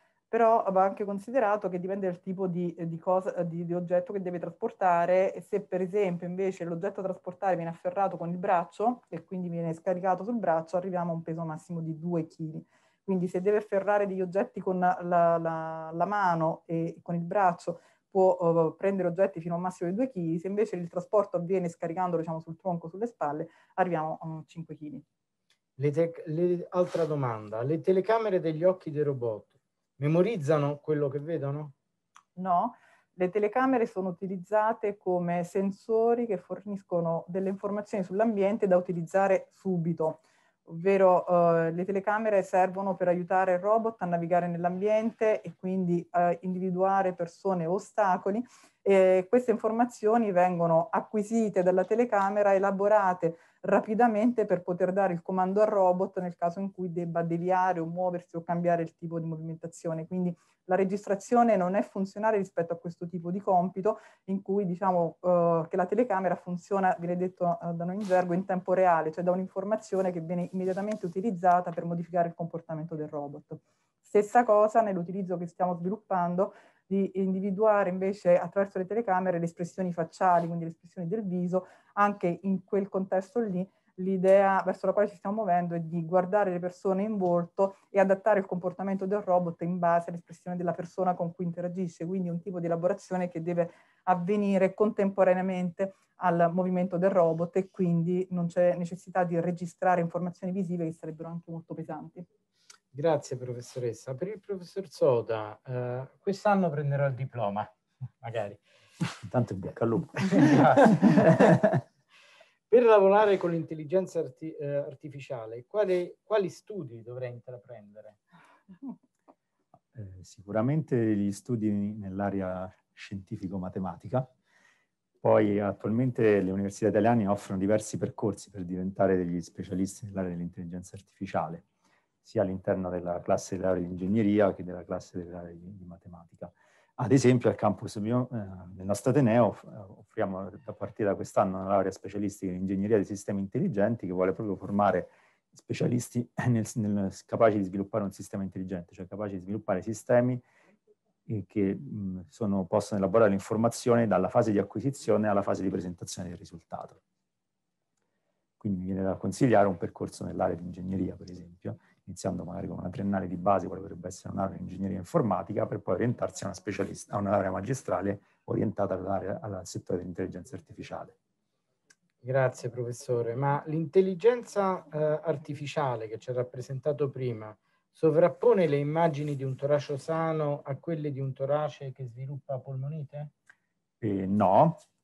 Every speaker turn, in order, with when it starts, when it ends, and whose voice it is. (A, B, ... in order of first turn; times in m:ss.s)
0:00.3-0:25.0 A
0:25.8-0:31.8 B
0:32.4-1:42.3 A
1:42.9-1:48.6 B
1:49.3-1:51.3 C
1:50.3-1:51.1 B
1:52.7-1:58.2 B
1:59.9-2:04.3 C
2:05.2-2:11.6 C
2:12.2-2:30.4 C
2:31.3-2:37.0 C
2:38.6-2:51.2 C
2:52.2-3:03.3 B
3:04.0-3:04.8 C